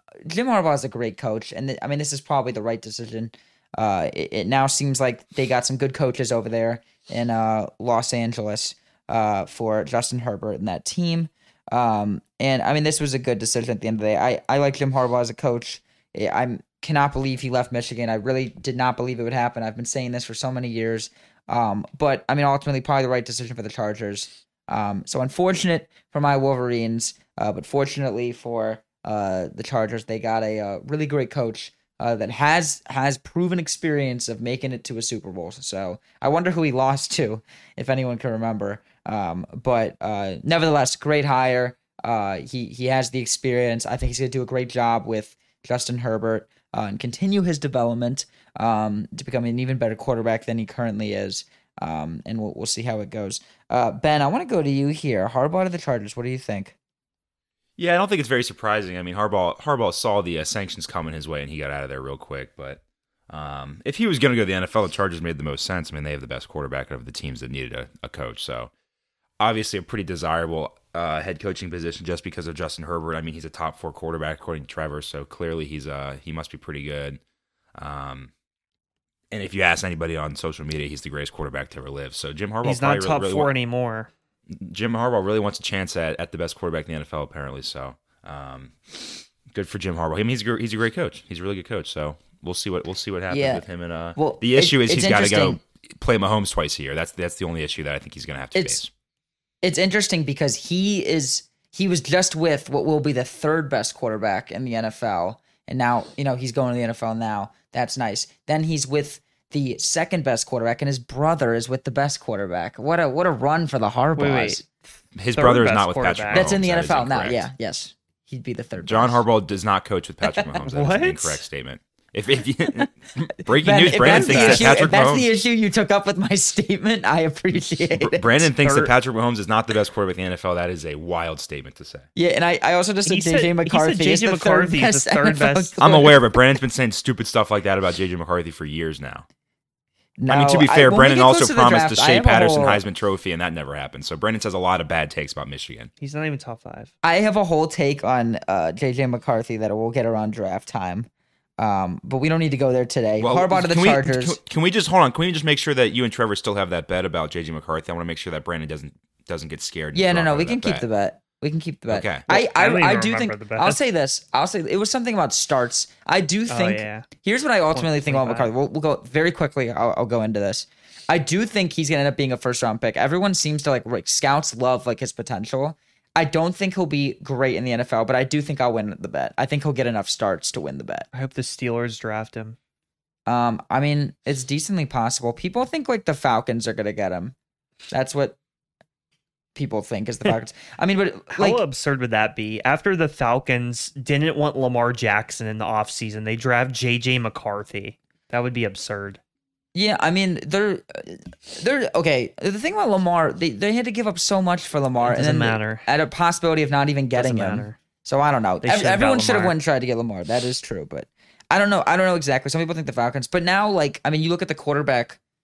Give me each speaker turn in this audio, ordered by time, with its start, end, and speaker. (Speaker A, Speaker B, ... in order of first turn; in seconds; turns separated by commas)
Speaker A: 0.2-56.7, Speaker B: 57.8-68.7, Speaker B: 69.4-77.2, Speaker B: 77.8-78.3, Speaker B: 79.3-83.5, Speaker C: 82.6-84.1, Speaker B: 84.5-98.9, Speaker A: 93.3-93.6, Speaker A: 94.2-95.6, Speaker A: 98.5-98.8, Speaker A: 99.6-114.6, Speaker C: 114.2-114.6, Speaker B: 115.2-117.5, Speaker C: 115.3-116.5, Speaker A: 116.3-119.2, Speaker B: 118.8-125.3, Speaker C: 120.6-121.4, Speaker A: 123.6-128.5, Speaker C: 124.0-124.8, Speaker B: 127.9-132.1, Speaker C: 128.6-128.9, Speaker A: 132.2-136.3, Speaker C: 133.0-135.7, Speaker B: 135.8-139.2, Speaker A: 140.2-142.8, Speaker B: 140.3-145.9, Speaker C: 146.0-146.9, Speaker A: 147.0-151.1, Speaker A: 151.6-154.4, Speaker B: 153.2-160.8, Speaker A: 159.9-181.1, Speaker B: 161.9-162.2, Speaker C: 162.3-163.8, Speaker C: 166.5-167.1, Speaker C: 167.7-168.5, Speaker C: 181.1-182.6, Speaker A: 183.2-187.3, Speaker A: 187.9-188.4, Speaker A: 189.5-191.6, Speaker C: 191.3-199.2, Speaker A: 199.7-215.2, Speaker C: 205.0-205.8, Speaker C: 207.1-207.8, Speaker C: 208.6-209.5